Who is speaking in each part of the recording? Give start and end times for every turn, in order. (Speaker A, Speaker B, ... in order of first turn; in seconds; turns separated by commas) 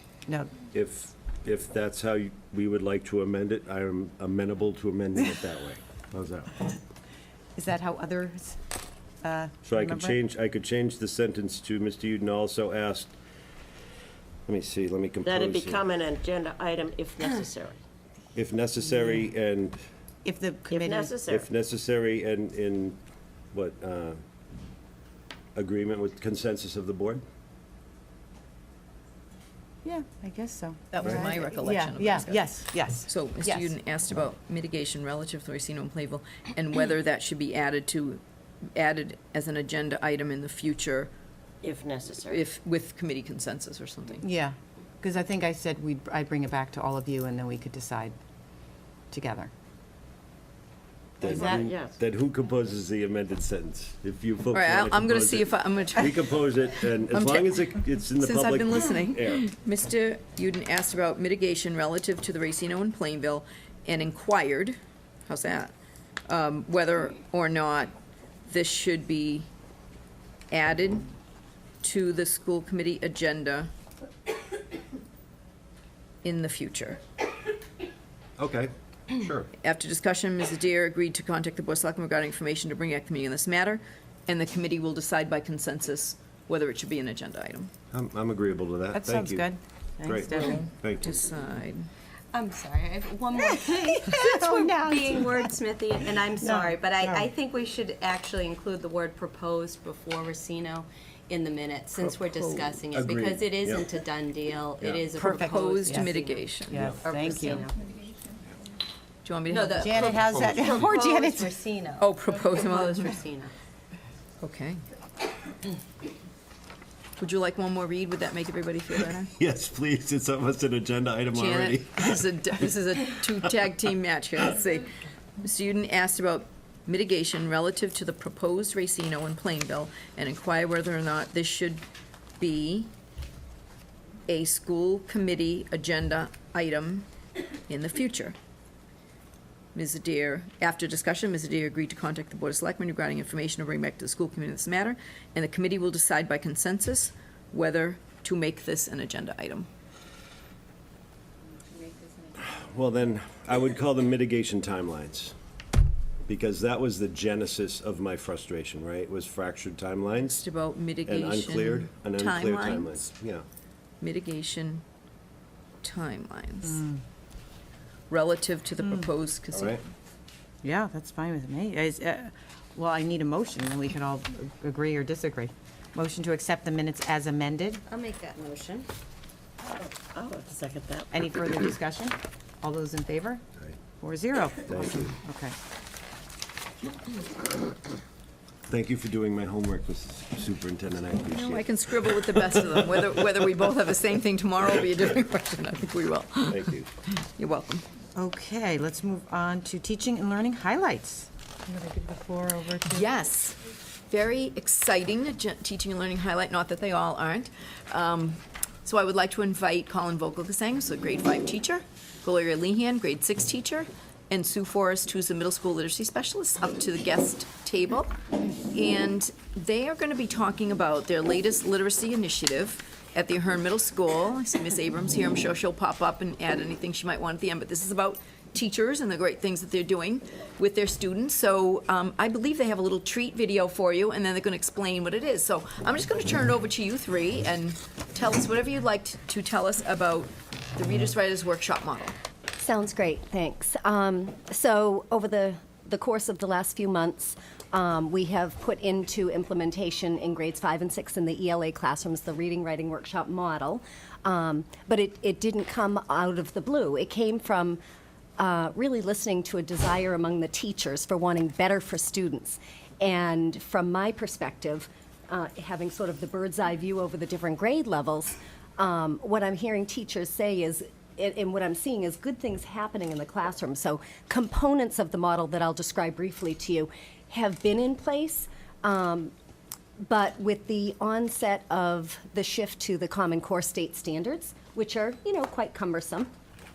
Speaker A: 0.3-0.5, Speaker B: 0.7-6.6, Speaker A: 7.6-8.6, Speaker A: 9.2-10.2, Speaker B: 9.7-13.2, Speaker B: 14.5-15.8, Speaker C: 15.2-17.8, Speaker B: 18.4-19.8, Speaker A: 20.2-21.1, Speaker C: 20.7-21.5, Speaker B: 21.3-23.0, Speaker B: 23.5-24.2, Speaker B: 25.6-27.2, Speaker A: 29.8-33.7, Speaker D: 30.9-38.2, Speaker D: 38.8-41.1, Speaker C: 41.6-42.5, Speaker D: 42.2-44.2, Speaker A: 44.2-48.2, Speaker A: 49.1-49.5, Speaker B: 51.2-59.5, Speaker C: 51.2-51.9, Speaker A: 51.2-51.6, Speaker D: 54.5-56.4, Speaker D: 57.1-65.7, Speaker D: 66.3-67.9, Speaker D: 68.5-69.5, Speaker D: 70.5-71.1, Speaker D: 71.8-73.7, Speaker D: 76.2-77.0, Speaker B: 78.4-79.5, Speaker D: 79.6-87.7, Speaker B: 87.9-89.5, Speaker A: 88.9-90.6, Speaker B: 90.0-91.2, Speaker D: 90.3-91.9, Speaker E: 92.3-106.5, Speaker A: 93.4-95.5, Speaker A: 96.4-97.3, Speaker B: 102.3-103.9, Speaker B: 104.8-105.1, Speaker A: 105.2-106.1, Speaker D: 105.3-107.0, Speaker A: 106.7-107.7, Speaker E: 107.0-107.7, Speaker D: 109.2-110.0, Speaker E: 109.5-113.5, Speaker A: 109.8-111.5, Speaker D: 112.0-113.2, Speaker D: 114.4-114.8, Speaker D: 117.2-119.3, Speaker B: 119.4-122.2, Speaker D: 121.3-124.9, Speaker D: 125.4-131.8, Speaker D: 132.4-132.9, Speaker D: 134.3-137.1, Speaker D: 137.7-138.4, Speaker D: 139.8-149.7, Speaker B: 152.4-155.3, Speaker B: 156.3-160.4, Speaker D: 160.3-163.0, Speaker B: 161.1-163.4, Speaker D: 164.0-164.8, Speaker D: 165.8-166.8, Speaker A: 166.7-167.0, Speaker D: 168.1-169.8, Speaker B: 169.5-169.8, Speaker A: 170.6-177.8, Speaker E: 177.9-178.9, Speaker C: 179.7-181.1, Speaker A: 181.1-183.4, Speaker A: 184.0-185.5, Speaker B: 184.7-185.1, Speaker B: 188.7-192.4, Speaker D: 191.3-196.8, Speaker B: 196.5-196.9, Speaker D: 197.4-197.8, Speaker A: 198.2-203.1, Speaker D: 202.9-203.6, Speaker D: 204.1-218.2, Speaker D: 218.7-242.2, Speaker F: 242.6-257.8, Speaker F: 258.4-279.3, Speaker F: 280.0-286.3